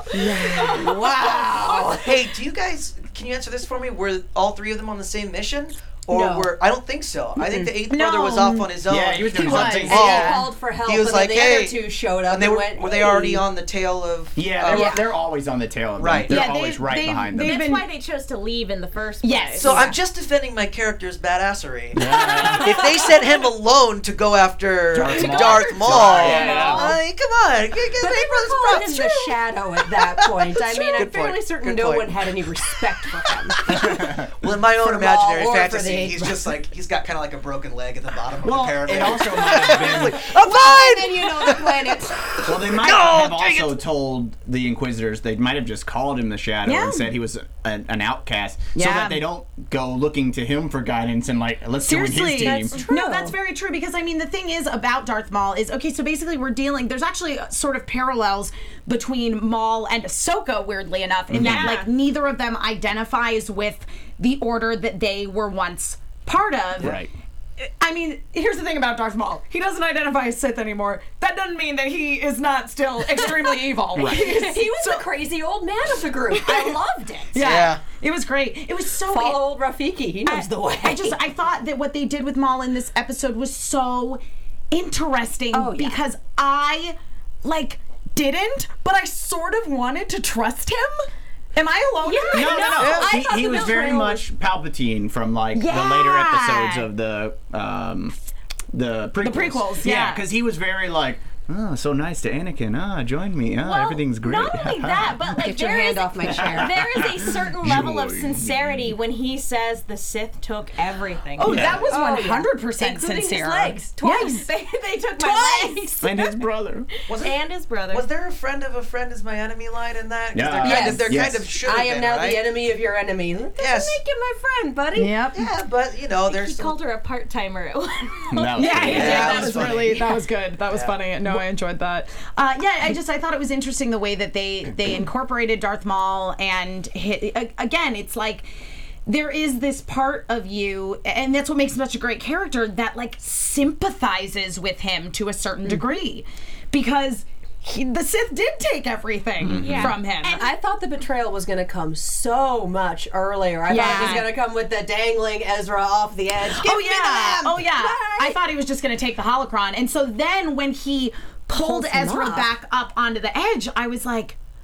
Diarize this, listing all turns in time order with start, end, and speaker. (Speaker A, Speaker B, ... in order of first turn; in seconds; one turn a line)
Speaker A: 0.1-1.8
Speaker B: 0.1-2.1
Speaker C: 1.2-15.0
Speaker B: 6.1-6.5
Speaker B: 7.4-7.7
Speaker A: 7.9-8.7
Speaker D: 8.9-10.2
Speaker A: 9.3-10.4
Speaker B: 9.8-13.4
Speaker D: 14.3-17.6
Speaker B: 14.7-15.0
Speaker C: 16.0-16.5
Speaker A: 16.3-17.8
Speaker E: 17.4-19.8
Speaker A: 19.2-19.8
Speaker C: 19.6-29.4
Speaker B: 19.6-19.9
Speaker D: 21.9-22.9
Speaker D: 24.9-26.8
Speaker A: 25.8-26.9
Speaker B: 26.2-26.9
Speaker B: 27.9-33.6
Speaker C: 29.9-43.8
Speaker D: 33.7-34.3
Speaker B: 34.8-36.4
Speaker D: 38.4-40.4
Speaker B: 40.0-42.2
Speaker D: 42.4-52.8
Speaker A: 46.6-47.1
Speaker A: 48.7-49.3
Speaker A: 51.8-67.0
Speaker B: 52.4-53.3
Speaker D: 61.3-61.8
Speaker E: 61.4-61.9
Speaker D: 66.8-67.1
Speaker A: 67.6-75.0
Speaker B: 74.0-77.5
Speaker A: 76.3-76.8
Speaker A: 77.3-79.4
Speaker C: 77.4-77.8
Speaker B: 79.0-81.2
Speaker A: 80.2-84.2
Speaker A: 84.7-91.0
Speaker B: 85.5-86.0
Speaker A: 91.5-92.8
Speaker E: 92.0-93.8
Speaker D: 92.3-98.2
Speaker C: 92.8-93.1
Speaker B: 92.8-94.2
Speaker A: 95.5-96.9
Speaker D: 98.7-105.3
Speaker A: 99.2-100.2
Speaker E: 103.6-111.7
Speaker B: 105.3-106.8
Speaker D: 106.3-108.9
Speaker A: 111.4-116.0
Speaker D: 111.4-111.9
Speaker B: 111.6-114.6
Speaker B: 115.2-115.7
Speaker E: 115.2-116.4
Speaker D: 116.0-116.9
Speaker E: 117.0-118.0
Speaker C: 117.1-117.4
Speaker C: 117.9-122.5
Speaker D: 120.3-121.5
Speaker B: 120.6-125.2
Speaker C: 123.6-124.0
Speaker A: 124.9-125.4
Speaker C: 125.3-126.7
Speaker E: 126.2-129.7
Speaker D: 128.3-129.5
Speaker A: 128.6-138.5
Speaker C: 128.8-130.1
Speaker B: 129.0-130.0
Speaker A: 139.1-150.5
Speaker D: 149.4-150.0
Speaker E: 149.5-150.4
Speaker B: 150.2-158.4
Speaker A: 153.7-154.4
Speaker A: 156.4-164.3
Speaker B: 161.5-162.5